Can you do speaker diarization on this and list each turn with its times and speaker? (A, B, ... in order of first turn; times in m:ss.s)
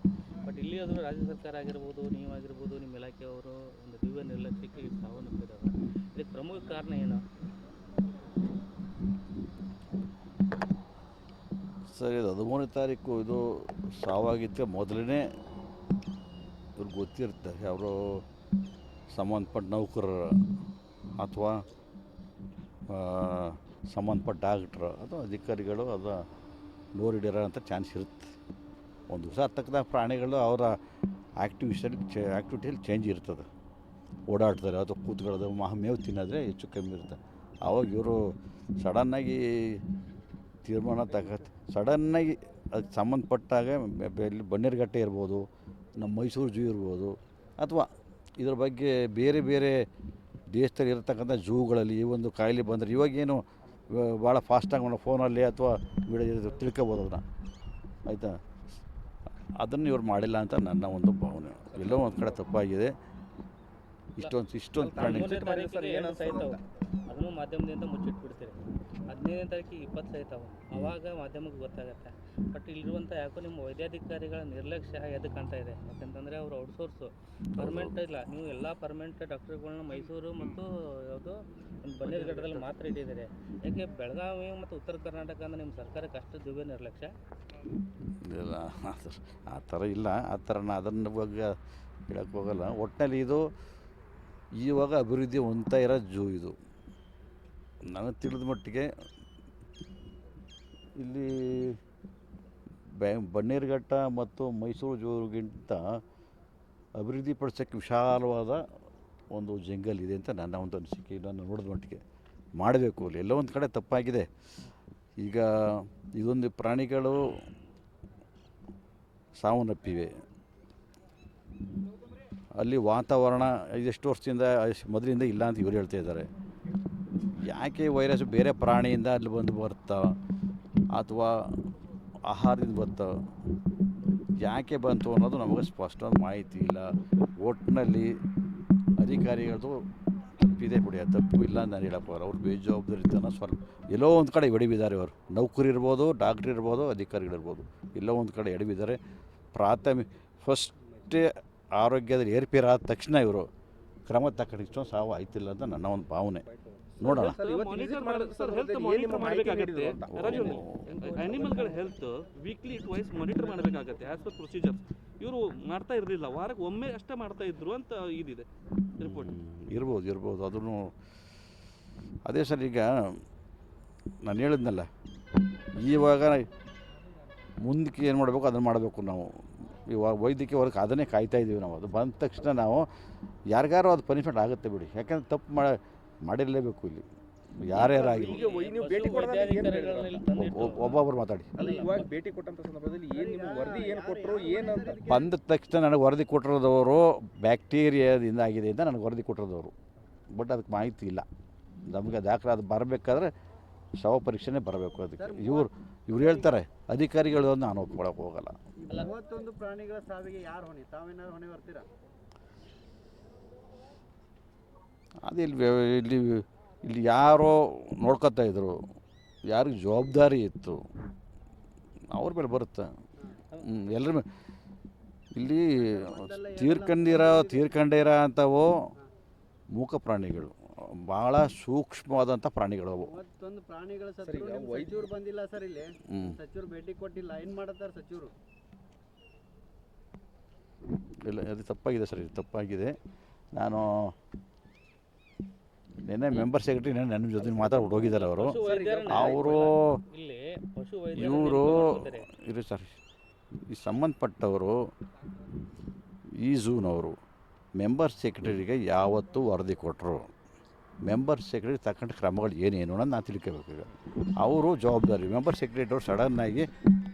0:00.4-0:07.2 A
0:11.9-0:15.2 B
0:16.8-0:18.2 B
0:19.1-0:20.5 B
0:21.2-0:21.6 B
0:22.9-0:26.3 B
0:27.0-0:28.4 B
0:29.1-0:30.8 B
0:31.4-0:33.5 B
0:34.3-0:39.8 B
0:40.6-0:45.4 B
0:46.0-0:49.8 B
0:50.5-0:57.2 B
0:58.1-0:58.4 B
0:59.6-1:02.9 B
1:01.7-1:02.3 C
1:04.2-1:05.4 B
1:04.8-1:06.6 C
1:05.0-1:27.1 A
1:17.6-1:18.0 B
1:22.0-1:22.7 D
1:28.2-1:31.6 B
1:32.1-1:33.5 B
1:34.6-1:36.6 B
1:37.9-1:38.9 B
1:41.0-1:41.8 B
1:43.0-1:46.0 B
1:47.0-1:48.6 B
1:49.3-1:52.0 B
1:52.6-1:54.3 B
1:55.2-1:57.3 B
1:59.4-2:00.1 B
2:02.6-2:06.3 B
2:07.4-2:10.2 B
2:10.9-2:11.7 B
2:12.3-2:13.2 B
2:14.4-2:18.2 B
2:19.0-2:29.0 B
2:29.5-2:33.5 B
2:34.1-2:36.5 B
2:36.4-2:40.5 C
2:37.0-2:37.4 B
2:37.0-2:48.5 D
2:40.1-2:40.9 B
2:40.2-2:41.9 A
2:41.2-2:41.8 E
2:43.3-2:44.1 C
2:49.0-2:49.3 D
2:49.0-2:50.9 B
2:52.2-2:53.2 B
2:54.2-2:54.9 B
2:55.8-2:56.5 B
2:57.6-3:02.9 B
3:03.5-3:07.1 B
3:07.6-3:08.4 B
3:07.9-3:10.2 C
3:07.9-3:12.1 A
3:10.4-3:11.6 B
3:11.6-3:15.0 C
3:13.0-3:15.3 E
3:15.0-3:19.7 B
3:20.3-3:21.2 B
3:21.9-3:23.3 B
3:24.0-3:28.6 B
3:25.2-3:26.6 E
3:28.8-3:31.9 E
3:35.2-3:38.9 B
3:39.5-3:40.8 B
3:42.1-3:42.9 B
3:43.6-3:44.3 B
3:45.3-3:48.7 B
3:45.8-3:47.8 E
3:49.7-3:53.1 B
3:53.0-3:58.3 E
3:54.2-3:55.0 C
3:56.1-3:56.4 B
4:01.2-4:03.0 B
4:03.6-4:04.1 B
4:06.0-4:10.0 B
4:08.1-4:12.3 A
4:11.2-4:13.0 B
4:13.7-4:14.8 B
4:16.3-4:17.2 B
4:17.8-4:20.3 B
4:21.0-4:26.7 B